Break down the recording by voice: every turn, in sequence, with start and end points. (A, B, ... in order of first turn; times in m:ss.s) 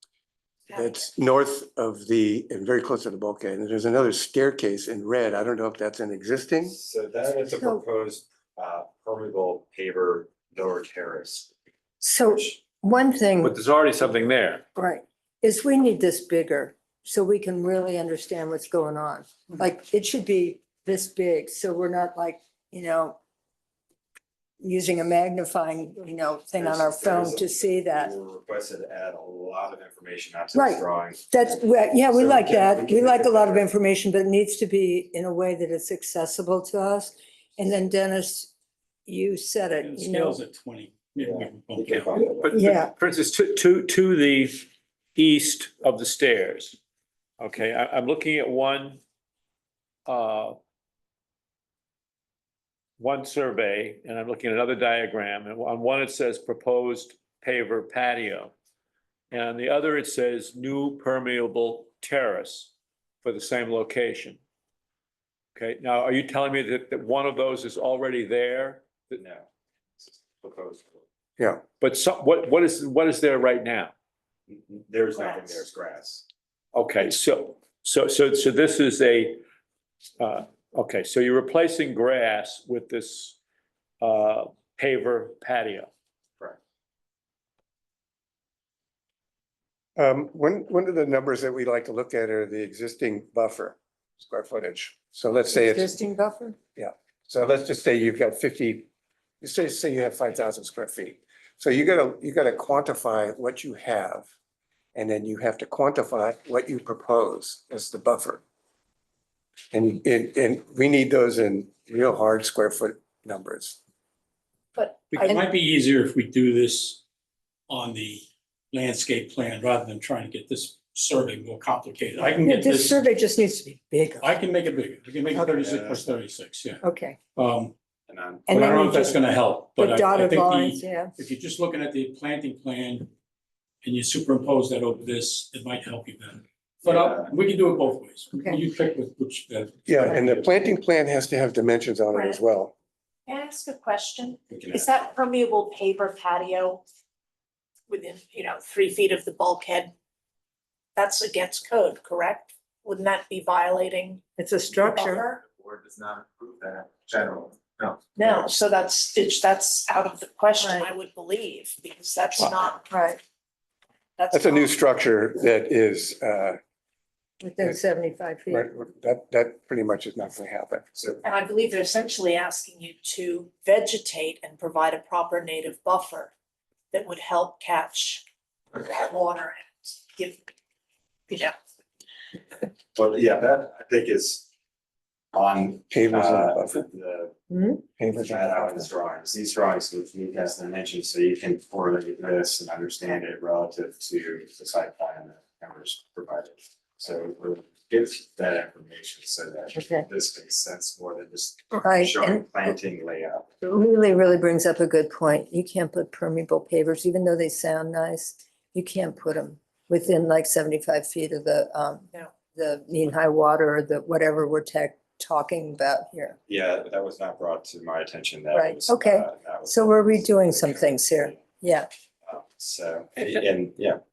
0:00.7-0:01.1 A
0:00.7-0:06.8 B
0:06.6-0:11.5 C
0:07.5-0:07.8 D
0:12.0-0:13.6 D
0:12.2-0:12.6 C
0:13.4-0:14.7 E
0:14.8-0:23.2 D
0:24.6-0:28.1 D
0:26.6-0:31.3 C
0:30.5-0:38.5 D
0:32.1-0:33.7 C
0:39.1-0:40.4 D
0:39.8-0:42.3 F
0:41.2-0:42.5 C
0:42.4-0:46.8 E
0:42.5-0:42.9 D
0:47.4-0:49.0 E
0:50.1-0:50.6 E
0:53.0-0:58.5 E
0:59.3-1:02.7 E
1:03.2-1:04.4 E
1:05.6-1:09.2 E
1:09.2-1:09.5 C
1:10.0-1:11.0 C
1:11.8-1:13.9 E
1:14.5-1:16.2 C
1:15.1-1:15.6 A
1:16.7-1:19.4 E
1:20.2-1:23.4 E
1:24.0-1:25.9 E
1:30.0-1:36.0 B
1:35.5-1:36.6 D
1:36.8-1:38.9 B
1:39.4-1:44.3 B
1:45.0-1:48.4 B
1:49.7-1:53.8 B
1:54.7-1:55.4 A
1:55.1-1:57.0 F
1:57.7-2:03.1 F
2:02.4-2:04.3 D
2:04.2-2:06.8 F
2:05.4-2:06.2 C
2:06.8-2:07.2 D
2:07.4-2:07.7 F
2:08.1-2:08.7 C
2:08.5-2:13.1 F
2:08.5-2:09.2 D
2:09.8-2:11.1 D
2:13.8-2:20.5 F
2:16.8-2:17.3 C
2:19.9-2:22.7 B
2:22.1-2:22.4 A
2:23.3-2:26.8 A
2:24.5-2:24.9 C
2:27.9-2:29.9 A
2:31.0-2:35.4 A
2:34.4-2:35.2 D
2:35.6-2:37.9 C
2:38.2-2:42.9 A
2:40.6-2:40.9 D
2:42.9-2:43.2 D
2:44.2-2:44.7 A
2:44.3-2:46.6 B
2:47.4-2:48.7 D
2:48.5-2:50.9 B
2:51.2-2:56.3 A
2:56.9-3:00.5 A
3:01.3-3:01.6 A
3:02.9-3:04.5 C
3:05.3-3:07.4 C
3:05.9-3:06.8 B
3:07.5-3:07.8 D
3:08.0-3:08.9 B
3:08.2-3:23.5 C
3:19.8-3:20.1 D
3:21.8-3:22.7 D
3:23.6-3:36.4 D
3:36.5-3:41.4 C
3:38.5-3:41.9 D
3:42.2-3:44.0 C